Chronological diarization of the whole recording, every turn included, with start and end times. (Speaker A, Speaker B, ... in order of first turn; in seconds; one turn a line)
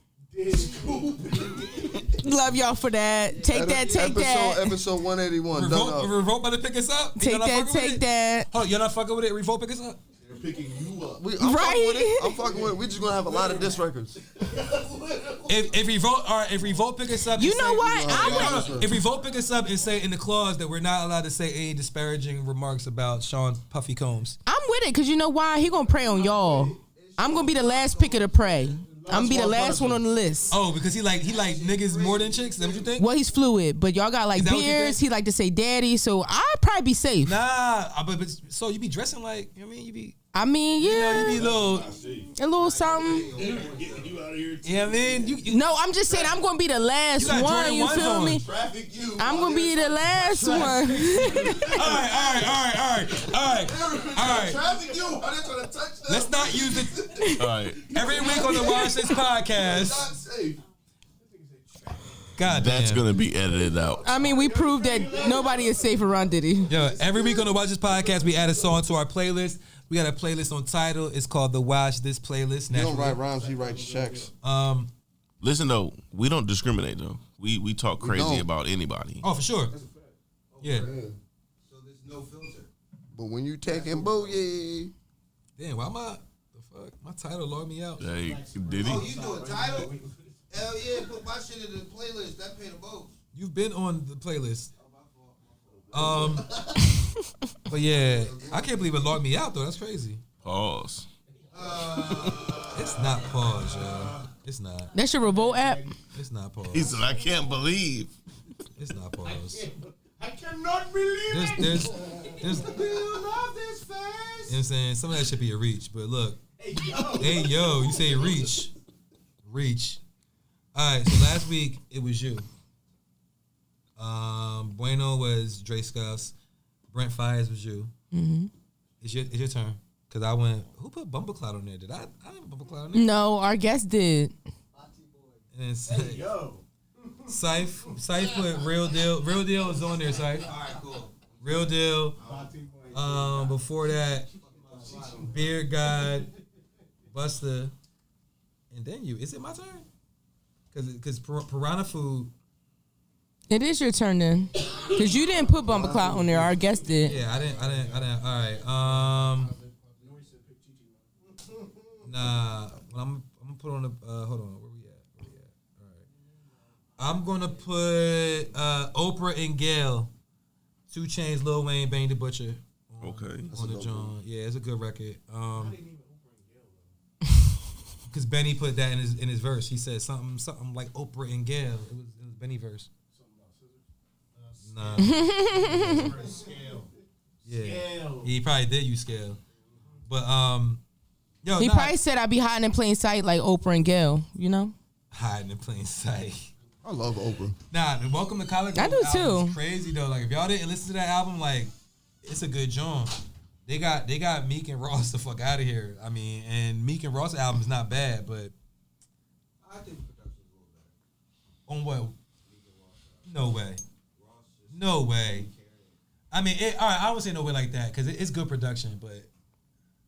Speaker A: 0.3-2.2
Speaker B: 0.5-2.1
Speaker C: 2.2-4.8
Speaker D: 3.3-3.8
Speaker E: 3.5-6.1
Speaker F: 5.5-10.0
Speaker C: 7.2-8.5
Speaker B: 10.2-11.3
Speaker E: 11.2-14.2
Speaker C: 11.4-12.4
Speaker B: 12.5-13.7
Speaker B: 14.4-15.7
Speaker F: 15.5-24.4
Speaker C: 17.3-18.8
Speaker E: 17.8-19.0
Speaker B: 18.1-18.9
Speaker C: 24.4-30.6
Speaker D: 25.9-29.1
Speaker A: 28.8-31.9
Speaker E: 29.1-30.0
Speaker D: 30.5-32.9
Speaker F: 30.5-33.1
Speaker C: 33.0-37.4
Speaker F: 34.3-35.0
Speaker F: 37.2-40.2
Speaker C: 40.3-41.4
Speaker F: 40.8-41.9
Speaker B: 41.2-42.3
Speaker D: 41.5-44.3
Speaker C: 42.4-43.3
Speaker B: 43.2-45.4
Speaker F: 44.6-45.6
Speaker C: 45.5-48.4
Speaker F: 47.1-48.4
Speaker D: 48.4-51.7
Speaker C: 49.2-51.9
Speaker F: 50.4-54.6
Speaker B: 51.5-58.8
Speaker D: 54.1-55.4
Speaker F: 56.1-57.0
Speaker D: 56.2-56.4
Speaker C: 57.1-57.5
Speaker G: 57.3-57.9
Speaker F: 57.9-60.1
Speaker C: 58.5-59.2
Speaker B: 59.5-60.6
Speaker A: 61.2-62.4
Speaker F: 62.4-63.0
Speaker G: 62.4-64.0
Speaker A: 63.4-68.8
Speaker C: 64.0-66.7
Speaker F: 66.7-73.2
Speaker E: 72.7-74.3
Speaker A: 73.2-74.3
Speaker F: 74.4-74.9
Speaker G: 75.4-79.2
Speaker E: 78.0-78.5
Speaker F: 79.2-79.7
Speaker A: 79.7-80.1
Speaker D: 80.5-81.1
Speaker F: 80.6-80.9
Speaker E: 80.8-81.2
Speaker D: 81.6-82.7
Speaker E: 83.1-84.9
Speaker D: 83.7-84.4
Speaker F: 85.6-88.1
Speaker G: 88.0-89.1
Speaker A: 88.1-91.0
Speaker D: 88.8-93.1
Speaker F: 93.3-94.7
Speaker D: 94.7-96.9
Speaker F: 95.9-96.5
Speaker A: 95.9-96.7
Speaker F: 97.7-100.2
Speaker D: 97.8-99.1
Speaker G: 100.4-101.1
Speaker A: 101.3-104.1
Speaker D: 101.5-103.3
Speaker G: 102.1-102.4
Speaker F: 102.7-104.9
Speaker C: 104.9-105.8
Speaker A: 105.1-106.0
Speaker F: 106.1-106.9
Speaker G: 106.7-108.1
Speaker A: 106.9-107.2
Speaker F: 108.8-109.7
Speaker A: 109.2-114.5
Speaker F: 111.3-112.8
Speaker D: 112.7-113.2
Speaker F: 114.5-116.4
Speaker A: 116.6-118.5
Speaker F: 117.2-118.7
Speaker F: 119.5-120.0
Speaker F: 120.7-122.5
Speaker F: 124.0-126.3
Speaker F: 126.9-127.9
Speaker C: 128.1-128.5
Speaker F: 129.0-133.1
Speaker C: 132.9-134.3
Speaker D: 134.7-135.4
Speaker F: 135.5-136.2
Speaker A: 135.8-137.3
Speaker F: 137.3-140.5
Speaker A: 137.9-138.5
Speaker D: 140.2-142.5
Speaker F: 141.4-142.2
Speaker A: 142.2-143.5
Speaker F: 142.9-144.3
Speaker A: 144.2-145.4
Speaker D: 144.3-145.5
Speaker F: 145.3-146.3
Speaker F: 147.1-147.7
Speaker F: 148.7-149.8
Speaker F: 150.7-152.3
Speaker C: 153.5-157.2
Speaker A: 154.7-155.5
Speaker E: 155.6-156.5
Speaker A: 156.5-158.0
Speaker F: 157.0-159.5
Speaker D: 157.4-157.9
Speaker D: 158.7-160.2
Speaker A: 159.9-162.4
Speaker F: 162.1-166.0
Speaker A: 166.1-166.6
Speaker F: 167.0-170.1
Speaker F: 170.9-175.8
Speaker G: 173.0-173.5
Speaker E: 173.5-174.1
Speaker A: 175.5-176.9
Speaker F: 178.1-182.9
Speaker A: 183.1-186.9
Speaker F: 184.7-186.1
Speaker C: 185.0-186.1
Speaker F: 187.4-189.4
Speaker A: 187.5-188.3
Speaker A: 189.7-190.0
Speaker F: 190.1-190.8
Speaker F: 191.4-192.0
Speaker C: 191.6-194.7
Speaker F: 195.1-196.5
Speaker E: 196.8-197.6
Speaker F: 197.7-201.7
Speaker C: 198.7-199.6
Speaker F: 202.2-208.5
Speaker D: 209.6-210.9
Speaker F: 211.7-212.2
Speaker D: 212.4-213.3
Speaker F: 213.3-213.8
Speaker D: 214.2-216.0
Speaker F: 214.7-215.5
Speaker F: 216.3-219.3